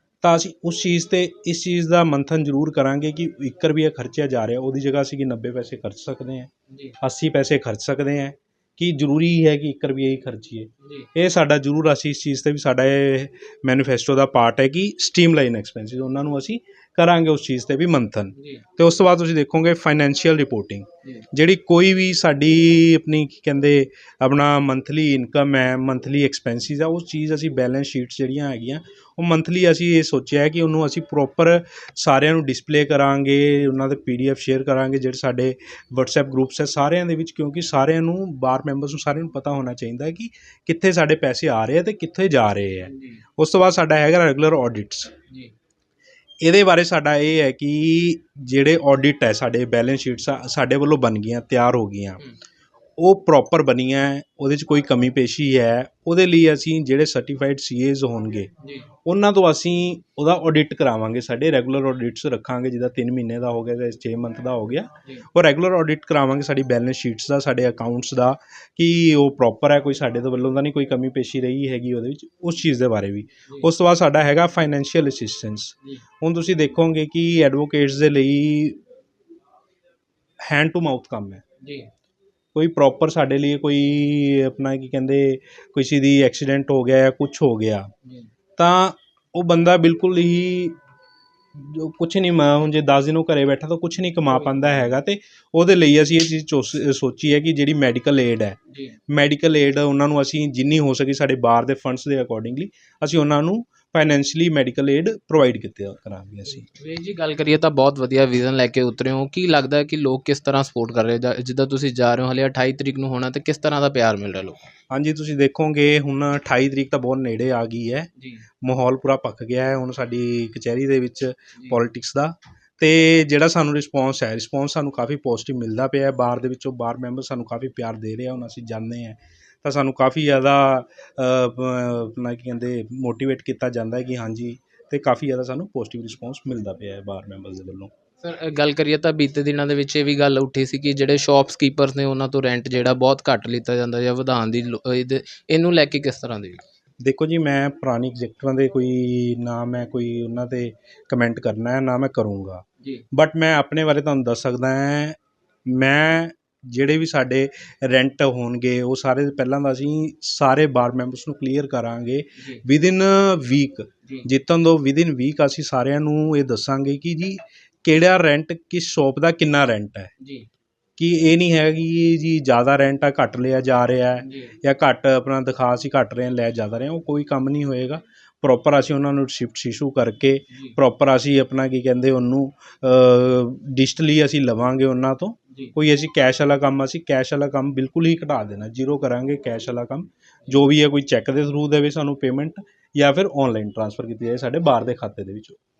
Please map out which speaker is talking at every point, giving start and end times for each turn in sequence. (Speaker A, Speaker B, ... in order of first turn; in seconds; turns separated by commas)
Speaker A: 0.2-45.1, Speaker B: 6.7-7.0, Speaker B: 10.8-11.1, Speaker B: 42.9-43.2, Speaker A: 46.4-52.2, Speaker A: 53.0-58.5, Speaker A: 59.0-78.8, Speaker A: 80.4-81.4, Speaker B: 81.6-81.9, Speaker A: 82.5-87.9, Speaker A: 88.6-90.8, Speaker A: 91.5-98.6, Speaker B: 94.3-94.8, Speaker B: 98.7-99.0, Speaker A: 99.1-106.7, Speaker B: 106.6-114.6, Speaker A: 114.9-118.1, Speaker B: 118.2-118.4, Speaker A: 118.6-137.9, Speaker B: 138.2-146.6, Speaker A: 147.0-170.1, Speaker B: 162.4-162.6, Speaker B: 170.2-170.5, Speaker A: 171.0-195.6, Speaker B: 174.2-174.5